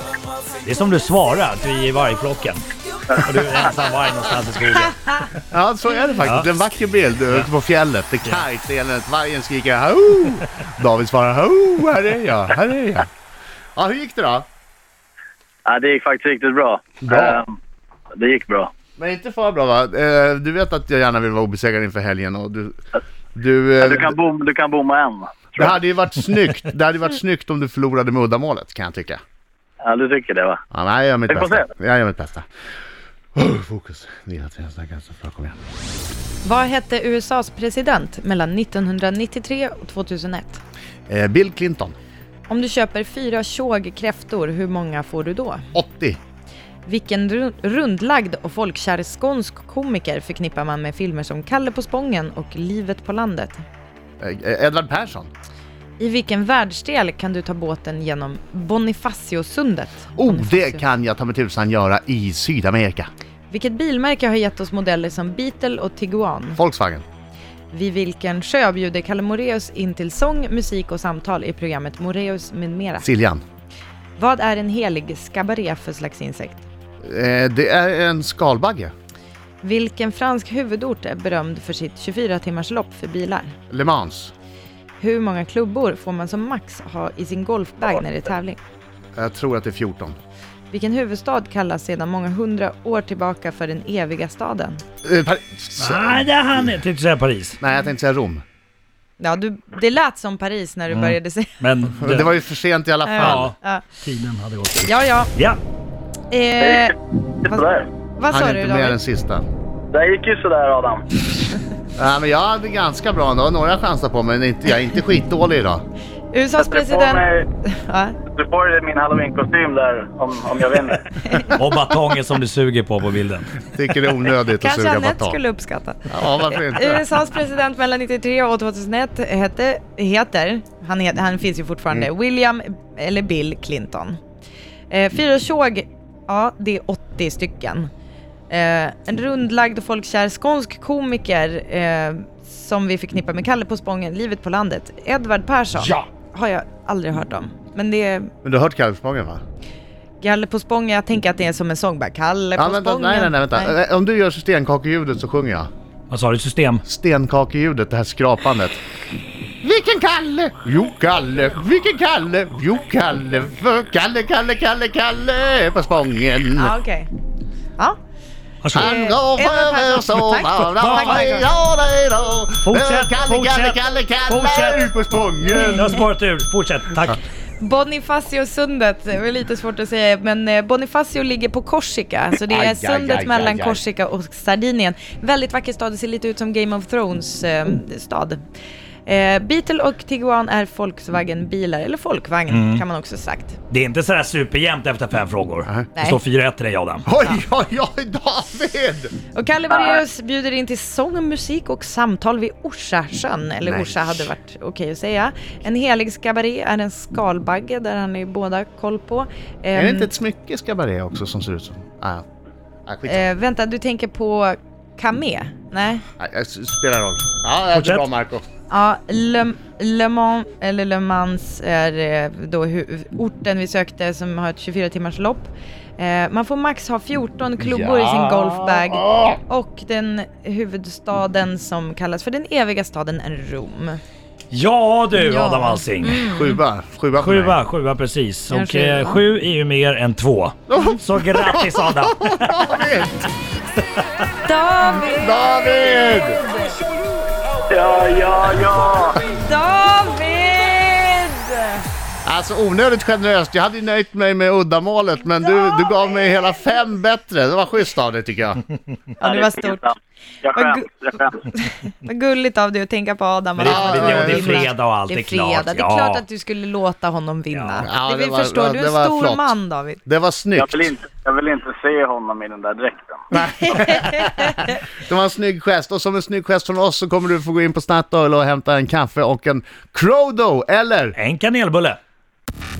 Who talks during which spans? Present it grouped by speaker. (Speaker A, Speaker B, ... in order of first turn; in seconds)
Speaker A: 0.6-5.3, 95.8-97.6, 100.9-102.3, 103.2-105.6, 121.4-123.7, 156.1-156.8, 168.6-168.9, 170.7-171.2, 172.6-174.8, 175.7-177.2, 192.5-192.8, 193.7-197.1, 217.7-218.1, 234.5-236.2, 237.2-242.7, 263.6-266.2, 267.5-267.9, 281.1-282.0
Speaker B: 5.5-13.1, 13.8-14.4, 17.0-17.4, 19.0-22.8, 23.3-24.1, 25.6-29.2, 30.7-32.5, 33.3-35.5, 41.1-41.9, 45.7-46.2, 54.2-55.3, 60.1-63.1, 66.5-67.0, 73.0-73.4, 77.0-78.9, 83.7-84.3, 89.2-90.2, 95.0-96.7, 97.6-98.4, 102.0-103.5, 108.3-109.5, 112.0-115.8, 123.7-125.4, 126.1-127.0, 148.4-149.4, 152.6-155.7, 156.8-158.8, 159.6-166.8, 168.7-175.8, 182.5-183.8, 197.1-199.1, 203.6-204.3, 209.7-212.2, 212.8-213.3, 216.2-218.4, 227.6-229.4, 236.3-237.6, 240.7-243.3, 245.0-246.4, 252.2-258.6, 263.6-264.7, 267.8-269.5, 270.1-270.9, 273.3-281.1
Speaker C: 15.7-17.6, 18.1-18.7, 23.8-25.7, 29.8-30.6, 31.3-31.7, 106.6-106.9, 107.4-107.9, 109.9-111.2, 116.6-117.5, 118.3-121.2, 247.7-249.2, 259.2-261.4, 270.6-274.0
Speaker D: 36.4-40.6, 42.5-45.7, 46.8-53.6, 56.0-60.8, 63.5-66.6, 67.7-73.0, 74.2-76.6, 79.6-83.5, 85.0-88.6, 90.7-94.8, 99.2-101.6, 103.0-103.8, 104.8-105.3, 106.3-106.9, 107.5-109.0, 116.3-118.2, 124.6-134.2, 134.9-137.9, 138.5-148.3, 150.2-153.7, 166.6-167.1, 168.8-171.5, 177.6-188.4, 189.1-193.6, 195.9-196.2, 199.3-210.1, 213.1-216.0, 218.7-234.0, 235.1-236.6, 238.5-239.2, 244.3-246.7, 249.2-251.8, 259.2-259.8, 260.5-260.9, 261.5-270.0, 273.3-274.7